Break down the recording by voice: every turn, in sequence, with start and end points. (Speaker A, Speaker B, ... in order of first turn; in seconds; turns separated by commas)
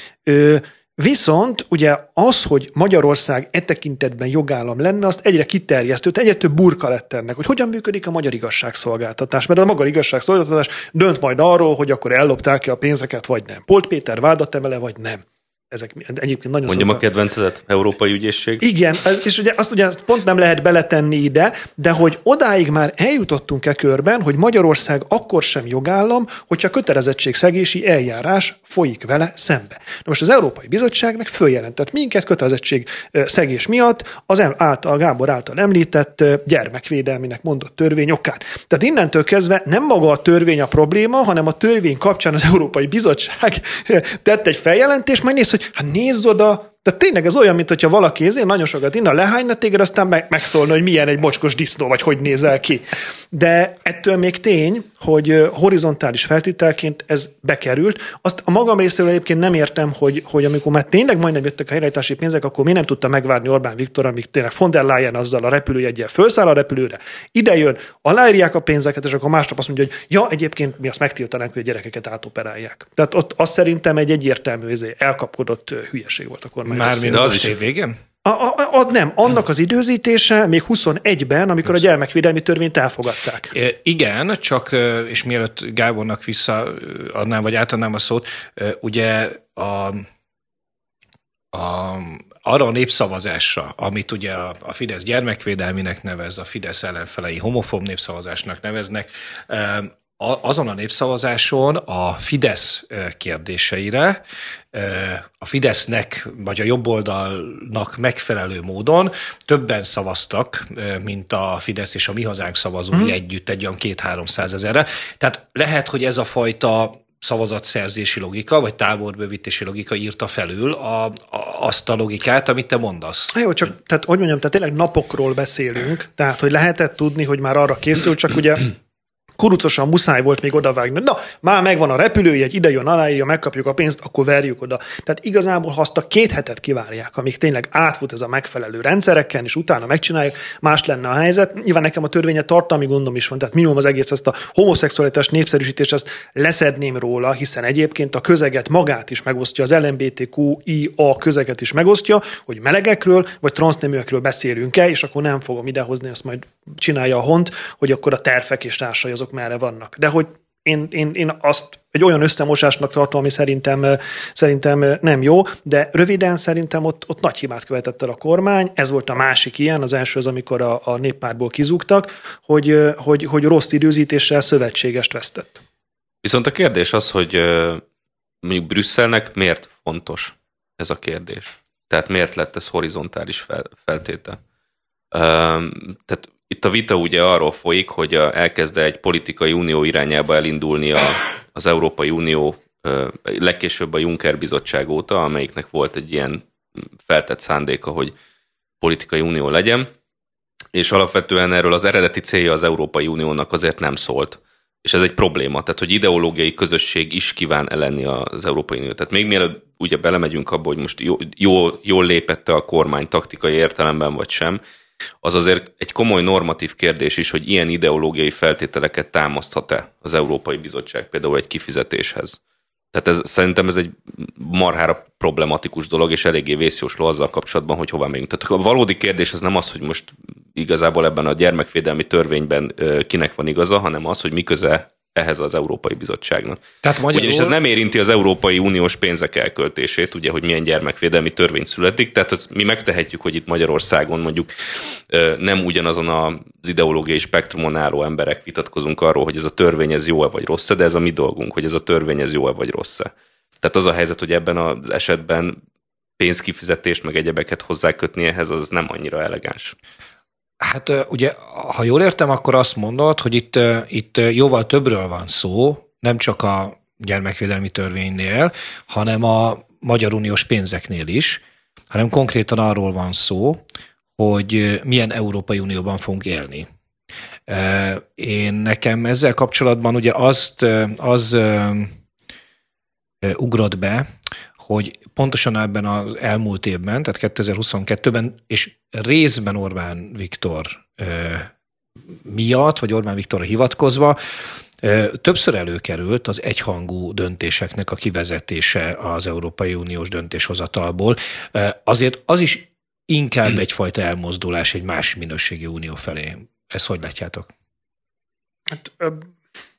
Speaker A: 0.2-17.0, Speaker B: 16.7-18.6, Speaker A: 18.6-77.5, Speaker C: 76.7-78.0, Speaker B: 77.1-77.5, Speaker A: 78.2-83.5, Speaker C: 83.5-90.1, Speaker C: 91.5-104.2, Speaker C: 104.7-123.4, Speaker A: 123.3-128.7, Speaker A: 129.4-175.6, Speaker B: 176.2-177.8, Speaker B: 178.4-184.4, Speaker B: 185.1-198.1, Speaker B: 198.8-199.9, Speaker B: 200.7-214.6, Speaker B: 215.2-222.4, Speaker B: 222.9-244.5, Speaker C: 236.8-237.5, Speaker B: 245.1-255.6, Speaker B: 256.2-259.7, Speaker C: 260.6-273.6, Speaker C: 274.2-276.6, Speaker C: 277.5-281.9, Speaker C: 283.2-284.1, Speaker C: 284.6-291.5, Speaker C: 292.2-294.2, Speaker C: 294.8-307.5, Speaker A: 308.7-309.2